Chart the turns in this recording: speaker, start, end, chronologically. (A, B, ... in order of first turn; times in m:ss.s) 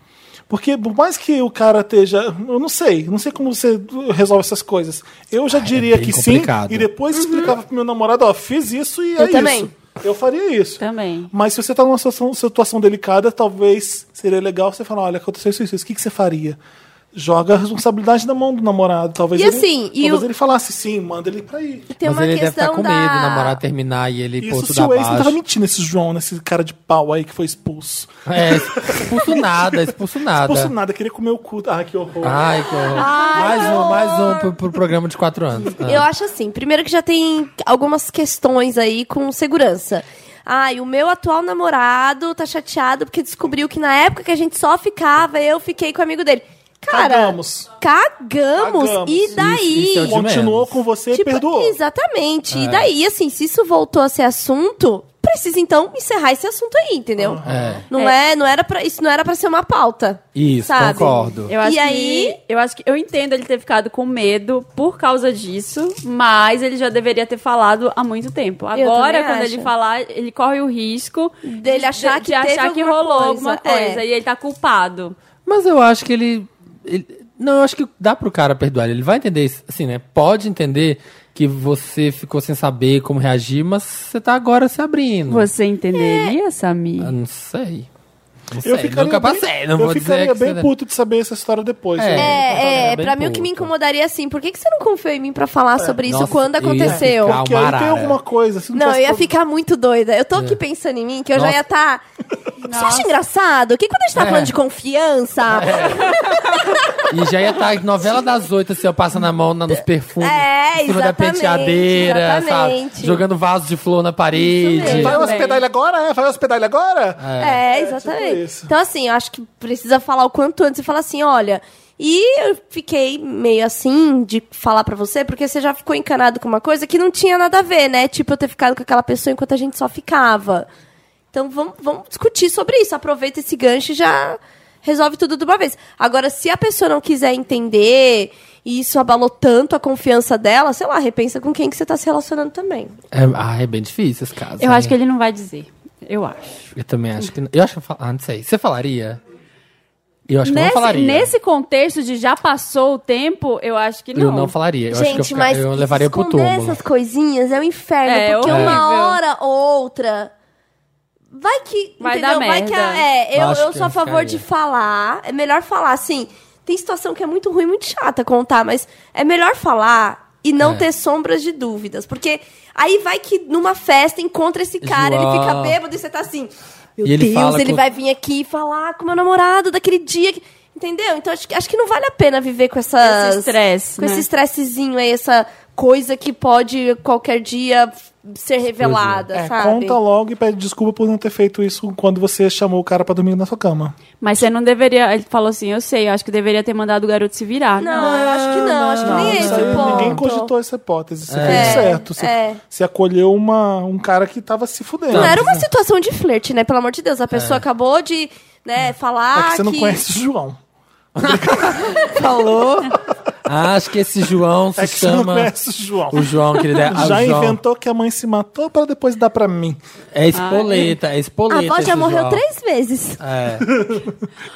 0:00.5-0:16.6 A
0:05.5-0:06.9 B
0:07.1-0:07.5 C
0:09.2-0:09.7 C
0:10.8-0:11.3 D
0:17.1-0:21.9 A
0:19.3-0:20.2 C
0:21.9-0:23.6 C
0:22.0-0:25.4 B
0:24.4-0:32.7 A
0:28.2-0:30.7 B
0:32.2-0:36.0 B
0:32.9-0:34.5 C
0:35.8-0:50.2 C
0:46.9-0:47.7 A
0:48.5-0:51.8 A
0:49.4-0:50.8 B
0:51.1-1:02.4 C
0:52.5-0:52.9 B
0:57.2-0:57.8 A
0:57.4-0:57.8 B
1:00.3-1:01.5 B
1:01.5-1:15.2 D
1:08.7-1:09.7 C
1:11.4-1:14.0 C
1:15.4-1:25.5 B
1:25.3-1:27.1 D
1:25.9-1:26.3 C
1:27.0-1:27.9 B
1:28.5-1:30.7 B
1:28.6-1:32.9 A
1:32.0-1:33.7 B
1:32.1-1:37.4 C
1:36.0-1:38.2 B
1:36.8-1:39.3 A
1:38.7-1:42.0 C
1:40.3-1:40.6 B
1:41.3-1:41.6 B
1:42.6-1:43.1 D
1:42.6-1:46.9 C
1:44.1-1:44.5 B
1:45.5-1:46.1 B
1:47.1-1:55.2 B
1:50.2-1:53.2 C
1:54.3-1:55.4 C
1:54.8-1:58.7 A
1:55.1-1:55.6 D
1:57.2-1:57.6 B
1:57.4-2:10.7 C
2:11.3-2:22.9 C
2:23.1-2:24.9 B
2:24.6-2:26.6 D
2:26.7-2:29.2 B
2:30.3-2:31.3 B
2:30.4-2:34.5 D
2:34.1-2:36.8 B
2:34.9-2:40.3 C
2:38.0-2:39.2 D
2:38.5-2:38.8 B
2:41.3-3:10.0 C
2:42.0-2:43.0 D
2:43.3-2:44.4 B
2:50.6-2:50.8 B
2:54.8-2:55.8 B
2:57.0-2:57.8 B
3:03.0-3:04.2 D
3:08.8-3:09.2 B
3:09.3-3:13.9 A
3:14.2-3:18.3 D
3:17.8-3:20.5 C
3:17.9-3:20.2 B
3:19.0-3:25.4 A
3:21.3-3:21.9 B
3:21.4-3:22.6 C
3:25.1-3:25.6 B
3:25.1-3:30.0 C
3:27.3-3:27.6 B
3:29.3-3:30.6 A
3:31.2-3:35.5 B
3:31.2-3:32.0 A
3:34.8-3:36.3 A
3:36.1-3:37.6 B
3:36.8-3:39.8 A
3:40.1-3:42.4 B
3:40.3-3:40.9 D
3:41.5-3:43.2 C
3:43.2-3:43.7 B
3:43.7-3:44.1 A